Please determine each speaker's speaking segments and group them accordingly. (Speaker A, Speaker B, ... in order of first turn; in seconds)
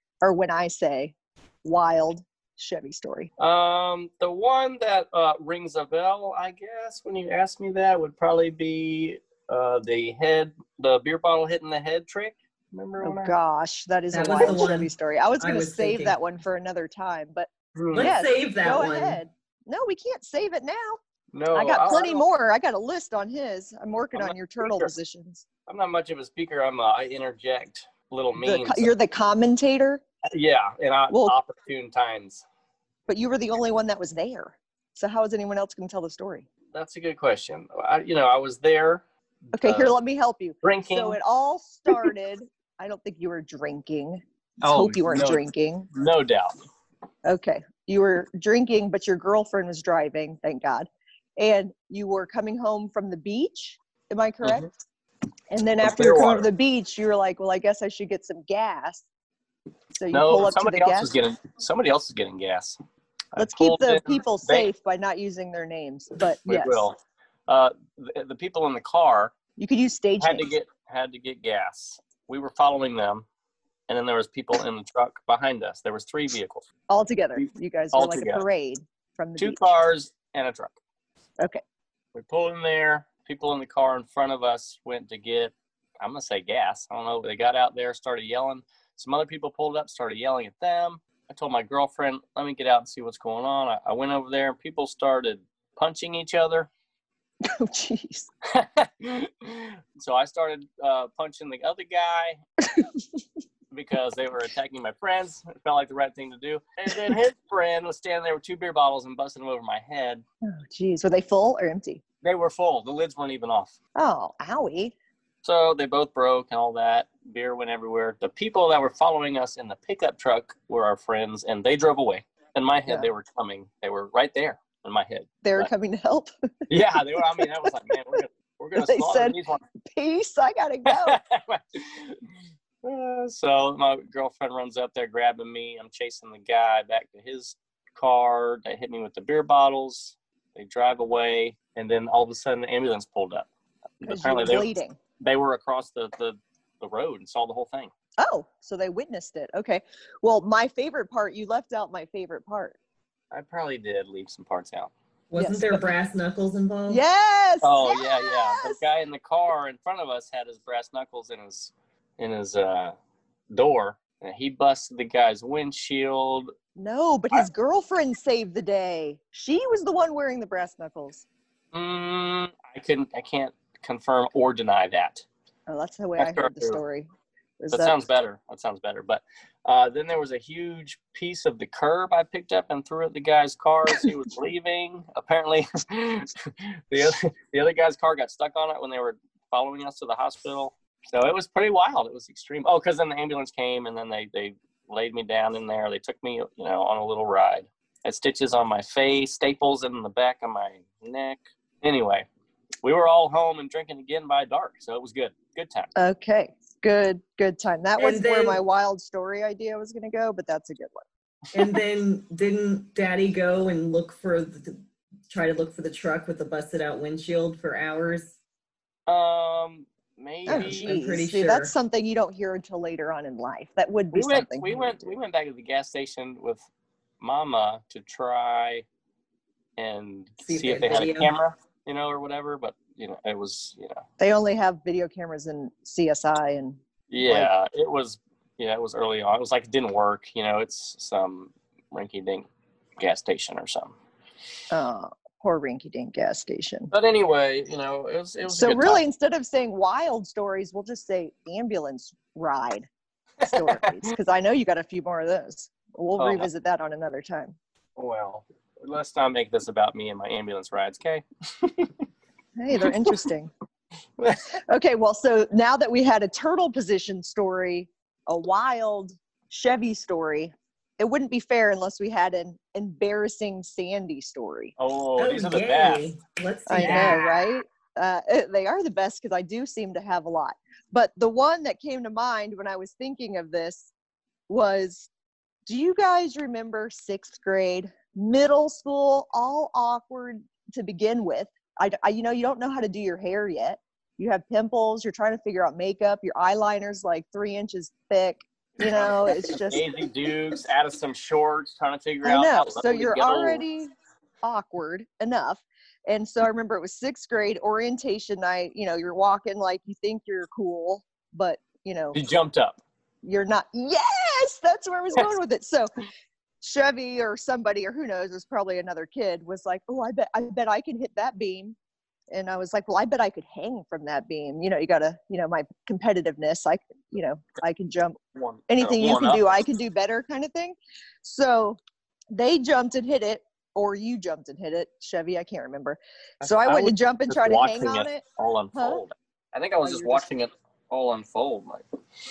Speaker A: 0.2-3.3, 13.0-21.0, 21.5-25.4, 28.4-30.0, 31.1-31.4, 33.1-36.5, 39.5-45.9, 47.2-54.7, 55.5-59.0, 60.0-61.1, 63.4-66.8, 69.6-70.5, 76.9-79.7, 97.4-98.3, 110.4-112.0, 114.0-114.9, 125.4-126.3, 127.2-127.7, 128.8-131.2, 144.0-145.0, 148.2-152.8, 155.4-155.8, 156.9-158.8, 166.8-171.2, 175.7-177.1, 177.6-178.0, 206.0-211.1, 220.5-225.1, 234.2-237.5, 244.7-246.9, 248.5-252.9, 253.4-257.6, 262.6-263.5, 264.7-274.7, 276.7-283.9, 284.5-285.1, 285.7-299.9, 302.2-303.9, 304.4-312.2, 313.2-315.9, 316.6-321.8, 322.3-331.8, 332.3-338.2, 338.8-339.0, 339.8-340.3
Speaker B: 3.4-13.3, 17.8-18.1, 21.3-22.2, 24.1-24.9, 25.7-28.9, 30.3-32.4, 36.7-40.0, 40.6-41.2, 44.6-46.6, 54.4-54.7, 55.8-56.5, 60.1-62.8, 63.3-64.7, 66.5-67.0, 67.5-69.3, 70.2-73.2, 73.9-76.6, 77.4-78.4, 79.4-80.8, 82.1-96.7, 98.5-102.4, 103.7-110.2, 112.2-113.8, 115.4-125.7, 126.7-129.6, 130.9-132.2, 132.8-143.5, 144.0-147.9, 153.3-154.9, 157.6-162.9, 163.5-166.5, 171.7-175.2, 176.2-176.8, 177.7-202.3, 202.8-205.9, 219.1-220.9, 224.1-226.7, 227.2-228.8, 229.8-234.0, 237.1-242.5, 243.0-243.9, 246.9-249.0, 253.4-254.1, 256.2-256.5, 258.0-261.9, 262.8-263.1, 274.8-276.1, 276.8-277.4, 298.8-303.6, 312.1-312.8, 328.4-329.6, 336.4-341.8
Speaker C: 14.1-16.2, 17.9-19.2, 155.3-157.0, 208.0-208.6, 211.5-218.4, 220.5-221.8, 230.4-231.3, 275.2-277.3